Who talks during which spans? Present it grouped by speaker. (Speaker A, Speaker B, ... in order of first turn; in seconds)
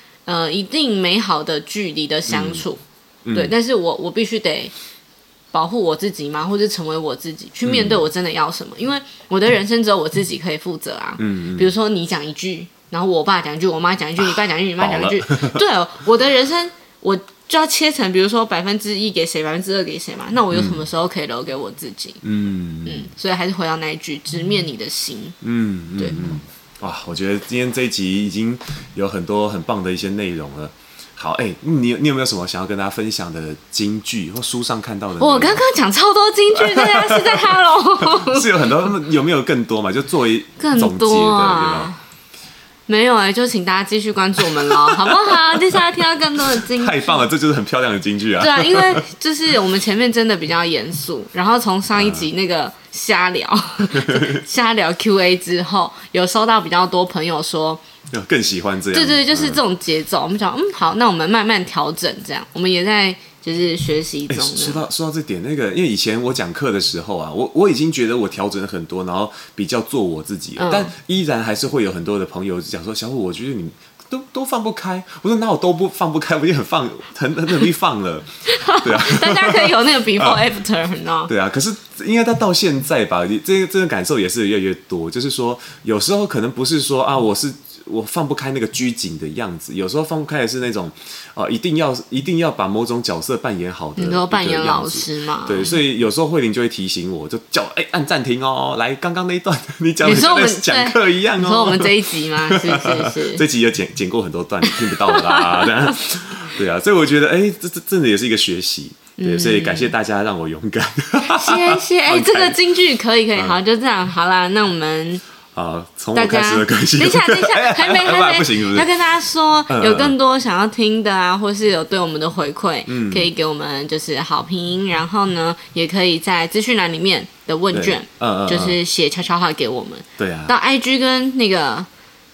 Speaker A: 0.3-2.8, 3.3-4.7, 5.5-22.2, 22.9-25.4, 26.0-26.2, 35.2-38.8, 40.6-42.0, 42.9-47.2, 48.4-57.8, 58.9-64.8, 70.6-70.9, 78.5-81.3, 94.0-95.8, 100.0-103.4, 104.7-106.0, 109.2-109.9, 111.3-115.2, 116.1-131.9
Speaker B: 2.3-2.6, 3.2-3.5, 7.7-8.0, 11.2-11.7, 14.2-15.6, 20.5-20.9, 22.2-23.1, 25.4-35.7, 36.5-41.9, 44.4-45.8, 46.6-49.0, 51.9-52.3, 54.0-54.4, 58.1-59.6, 64.3-80.4, 81.3-112.6, 115.5-118.9, 119.7-120.2, 122.9-123.3, 127.7-128.8, 130.2-130.6